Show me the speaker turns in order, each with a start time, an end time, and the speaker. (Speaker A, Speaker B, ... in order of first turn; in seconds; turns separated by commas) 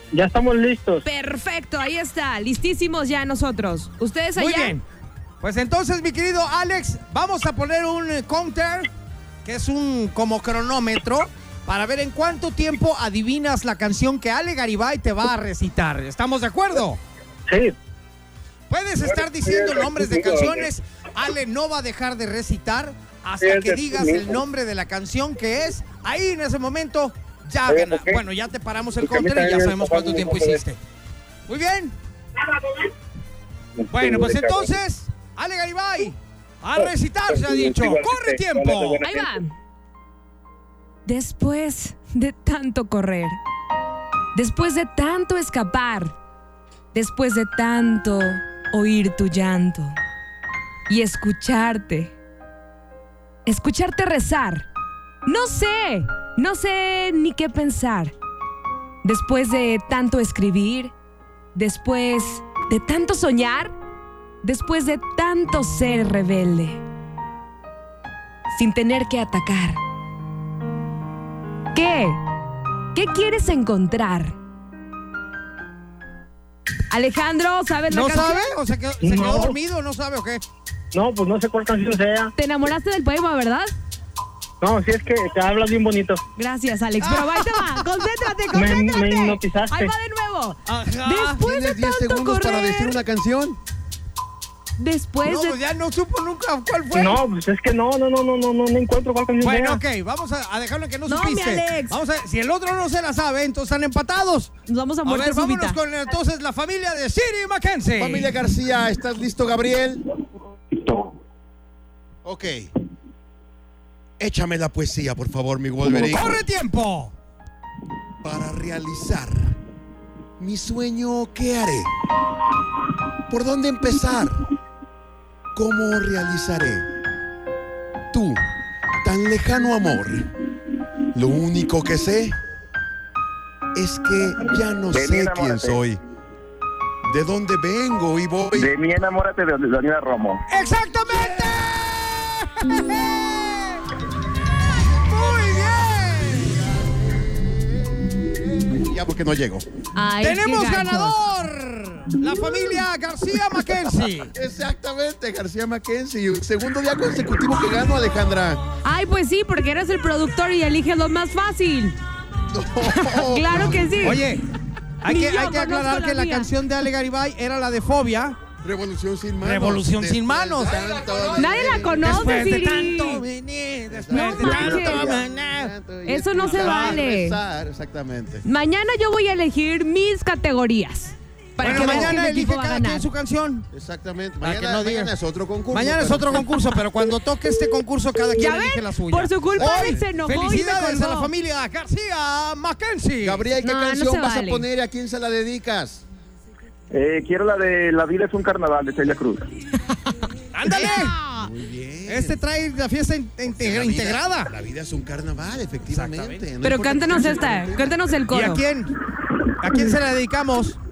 Speaker A: 0.1-1.0, Speaker B: 1.0-4.8, Speaker C: 4.4-4.8, Speaker C: 5.4-8.9, Speaker C: 9.4-17.0, Speaker A: 17.5-17.8, Speaker C: 18.7-30.8, Speaker C: 31.5-31.9, Speaker C: 33.9-39.1, Speaker B: 39.0-39.5, Speaker B: 41.1-43.4, Speaker B: 44.4-46.2, Speaker B: 46.9-50.0, Speaker B: 50.9-52.1, Speaker B: 53.5-54.7, Speaker B: 55.3-58.1, Speaker B: 59.0-60.9, Speaker B: 61.5-63.7, Speaker B: 64.4-66.8, Speaker B: 68.5-69.8, Speaker B: 71.7-72.2, Speaker B: 72.9-74.4, Speaker B: 76.9-78.5, Speaker C: 77.9-80.4, Speaker A: 79.0-79.6, Speaker A: 80.9-82.3, Speaker B: 82.4-83.7, Speaker A: 84.6-86.2, Speaker B: 86.4-93.0, Speaker C: 87.0-87.9, Speaker A: 88.5-89.9, Speaker C: 90.7-91.4, Speaker D: 91.4-93.6, Speaker B: 94.8-95.6, Speaker C: 95.2-97.2, Speaker A: 96.9-99.8, Speaker C: 99.4-104.5, Speaker B: 101.1-102.0, Speaker B: 104.7-105.8, Speaker C: 105.0-108.3, Speaker D: 108.0-110.0, Speaker D: 112.2-112.7, Speaker D: 114.2-116.4, Speaker C: 115.9-117.1, Speaker D: 118.2-119.5, Speaker D: 120.4-121.9, Speaker D: 123.3-124.4, Speaker D: 125.5-126.9, Speaker D: 128.1-128.4, Speaker D: 129.0-130.3, Speaker D: 131.1-132.4, Speaker D: 133.7-136.0, Speaker E: 134.9-135.8, Speaker D: 137.0-138.7, Speaker E: 138.6-140.4, Speaker C: 140.5-143.8, Speaker C: 144.9-146.7, Speaker D: 147.2-149.7, Speaker B: 149.9-151.2, Speaker C: 150.2-154.3, Speaker D: 154.3-158.6, Speaker B: 158.8-162.0, Speaker D: 162.5-164.2, Speaker B: 162.9-164.2, Speaker C: 163.7-164.4, Speaker C: 165.0-168.4, Speaker B: 165.1-166.5, Speaker D: 168.6-172.3, Speaker C: 169.4-171.0, Speaker B: 171.4-173.2, Speaker C: 171.8-175.7, Speaker D: 173.9-178.4, Speaker B: 174.1-175.1, Speaker B: 176.1-177.4, Speaker C: 176.4-177.0, Speaker B: 178.4-183.0, Speaker C: 181.6-183.7, Speaker D: 181.6-182.2, Speaker D: 183.7-186.5, Speaker C: 184.4-185.1, Speaker C: 185.7-193.4, Speaker B: 188.4-191.3, Speaker D: 189.6-190.1, Speaker D: 193.2-196.0, Speaker B: 193.6-194.7, Speaker E: 196.9-199.4, Speaker C: 200.5-201.4, Speaker D: 201.3-202.4, Speaker C: 202.1-204.5, Speaker D: 203.4-208.1, Speaker C: 205.9-206.4, Speaker B: 206.6-208.6, Speaker C: 208.3-208.9, Speaker C: 209.6-210.8